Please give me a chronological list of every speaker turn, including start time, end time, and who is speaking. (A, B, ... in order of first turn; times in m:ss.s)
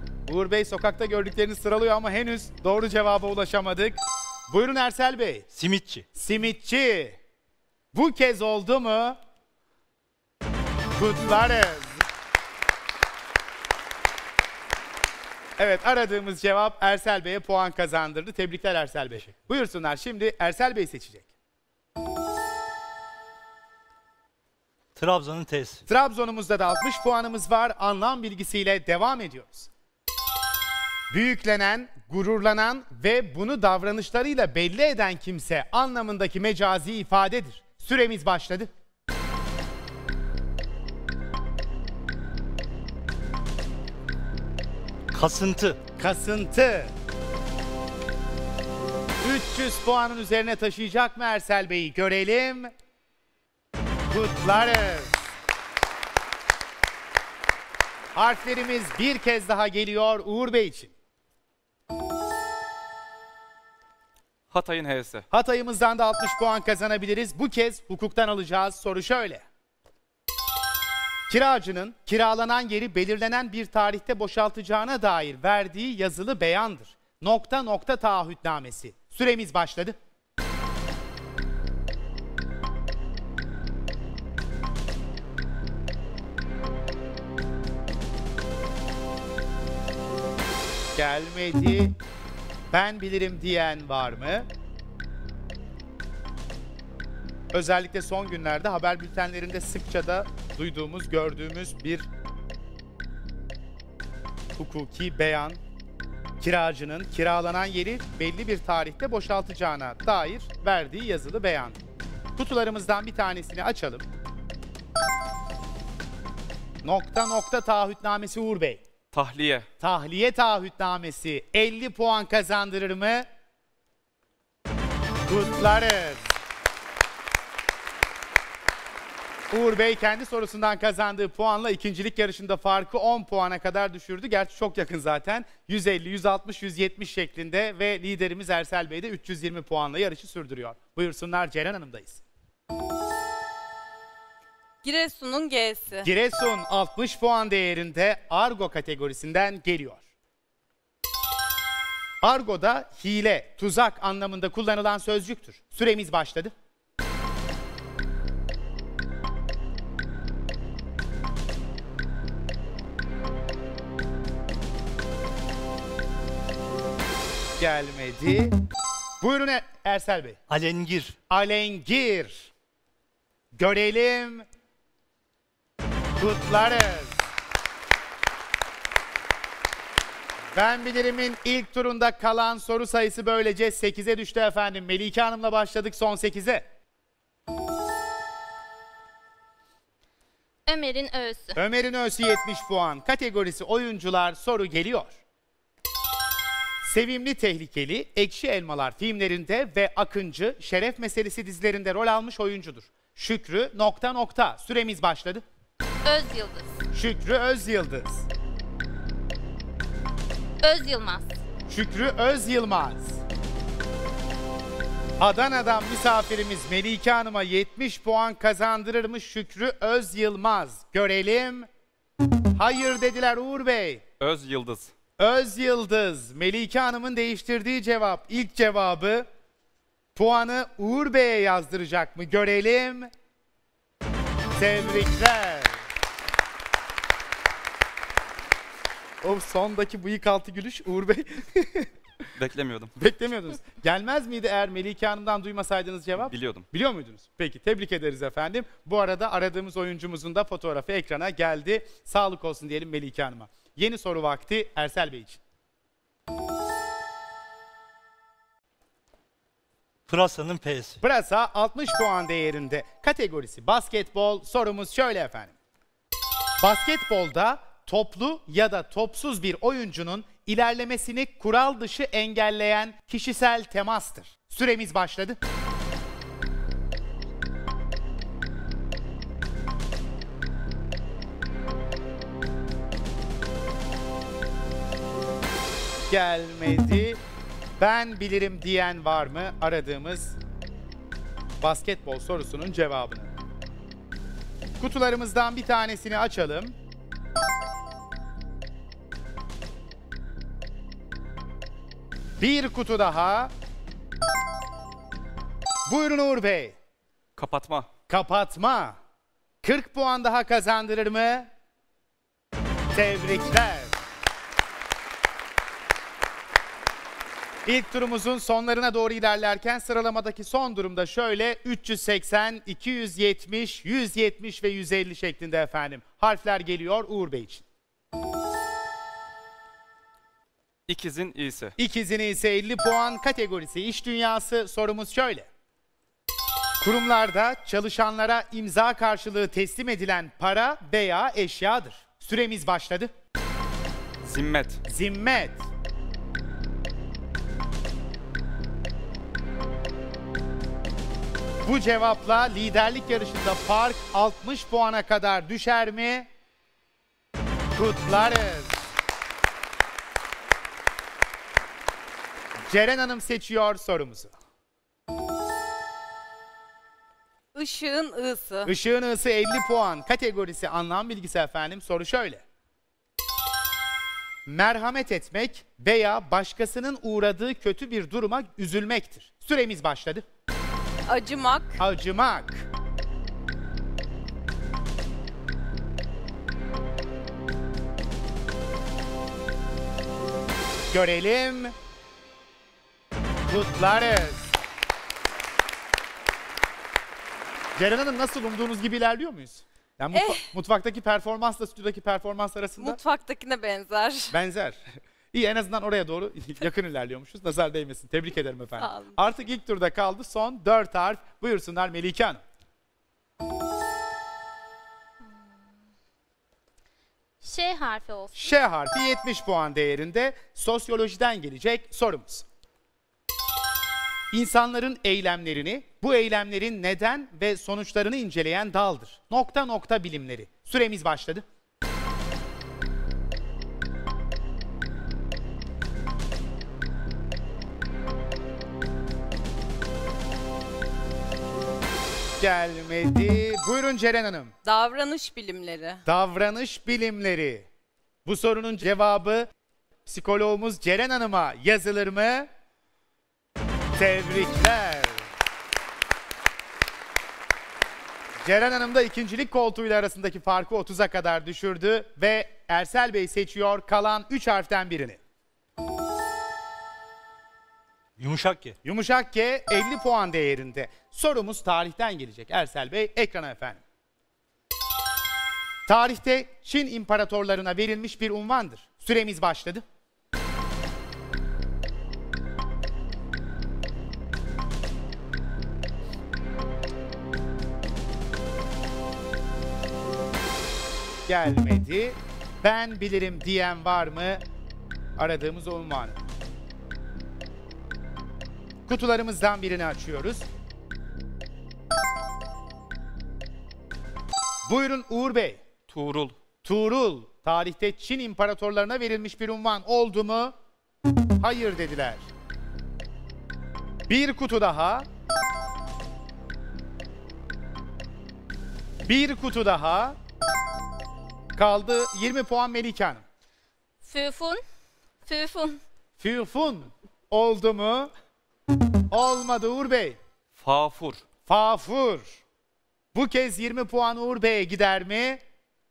0:00.2-0:05.5 A
0:05.5-0:06.0 B
0:06.1-0:07.2 A
0:07.9-0:09.2 A
0:10.9-0:12.0 A
0:15.6-0:21.2 A
0:25.0-0:25.8 B
0:25.9-0:29.7 A
0:31.1-0:38.7 A
0:45.1-0:45.8 B
0:46.0-0:46.9 A
0:49.2-0:52.7 A
0:54.1-0:55.3 A
0:58.1-1:00.9 A
1:04.5-1:05.2 C
1:05.3-1:09.4 A
1:11.3-1:20.0 A
1:30.9-1:31.9 A
1:32.7-1:34.5 A
1:37.5-1:42.1 A
1:44.6-1:45.6 A
1:46.4-1:51.8 A
1:52.4-1:54.1 A
1:56.8-1:58.8 A
1:59.1-1:59.7 C
1:59.8-2:03.3 A
2:05.2-2:06.3 A
2:09.5-2:22.2 A
2:24.8-2:26.1 D
2:26.0-2:30.0 A
2:32.2-2:36.5 A
2:47.6-2:48.6 A
2:49.2-2:50.4 A
2:50.5-2:51.2 B
2:51.3-2:52.5 A
2:53.5-2:54.5 A
2:56.2-2:57.2 A
3:00.5-3:06.6 A
3:10.7-3:11.6 E
3:11.6-3:15.2 A
3:16.8-3:25.4 A
3:26.0-3:26.7 E
3:26.9-3:28.3 A
3:30.6-3:31.3 E
3:31.7-3:33.2 A
3:35.2-3:41.7 A
3:42.6-3:44.0 A
3:44.2-3:44.9 C
3:45.2-3:49.3 A
3:50.1-3:53.1 A
3:54.5-3:55.8 A
3:59.2-4:01.9 A
4:02.4-4:03.0 C
4:03.0-4:15.4 A
4:06.2-4:06.7 C
4:20.1-4:21.0 B
4:21.0-4:25.5 A
4:26.6-4:35.4 A
4:46.1-4:47.2 A
4:47.8-4:50.4 A
4:51.6-4:53.3 A
4:54.8-4:56.7 A
5:02.4-5:03.5 A
5:05.9-5:06.8 A
5:07.4-5:07.9 C
5:08.1-5:09.0 A
5:09.6-5:11.5 A
5:12.9-5:13.9 A
5:17.6-5:27.6 A
5:30.9-5:31.8 C
5:31.8-5:35.5 A
5:36.8-5:43.1 A
5:44.2-5:44.8 C
5:44.9-5:45.6 A
5:51.6-5:56.3 A
5:57.8-5:58.8 A
6:02.7-6:04.3 A
6:07.5-6:08.7 D
6:08.6-6:12.4 A
6:14.4-6:20.2 A
6:21.1-6:21.8 D
6:21.8-6:22.7 A
6:30.9-6:31.8 A
6:33.4-6:34.5 A
6:37.8-6:43.0 A
6:40.1-6:40.4 D
6:42.8-6:44.3 D
6:44.3-6:52.4 A
6:48.8-6:49.3 D
6:57.4-6:58.5 E
6:58.4-7:02.4 A
7:04.3-7:11.4 A
7:22.4-7:24.5 A
7:24.6-7:26.0 D
7:26.1-7:27.7 A
7:28.2-7:29.5 A
7:30.1-7:32.5 A
7:33.9-7:35.3 A
7:38.4-7:45.2 A
7:48.2-7:48.8 B
7:48.8-7:53.8 A
7:55.9-7:59.8 A
8:11.3-8:14.4 A
8:15.2-8:16.2 A
8:18.9-8:20.5 A
8:24.7-8:25.6 A
8:25.9-8:26.4 C
8:26.6-8:30.5 A
8:31.4-8:32.3 A
8:34.1-8:35.1 A
8:39.1-8:40.2 A
8:41.6-8:43.2 A
8:44.0-8:44.6 E
8:45.2-8:45.8 E
8:46.2-8:48.1 A
8:49.1-8:50.2 A
8:50.6-8:51.2 C
8:51.5-8:52.4 A
8:53.1-8:55.4 A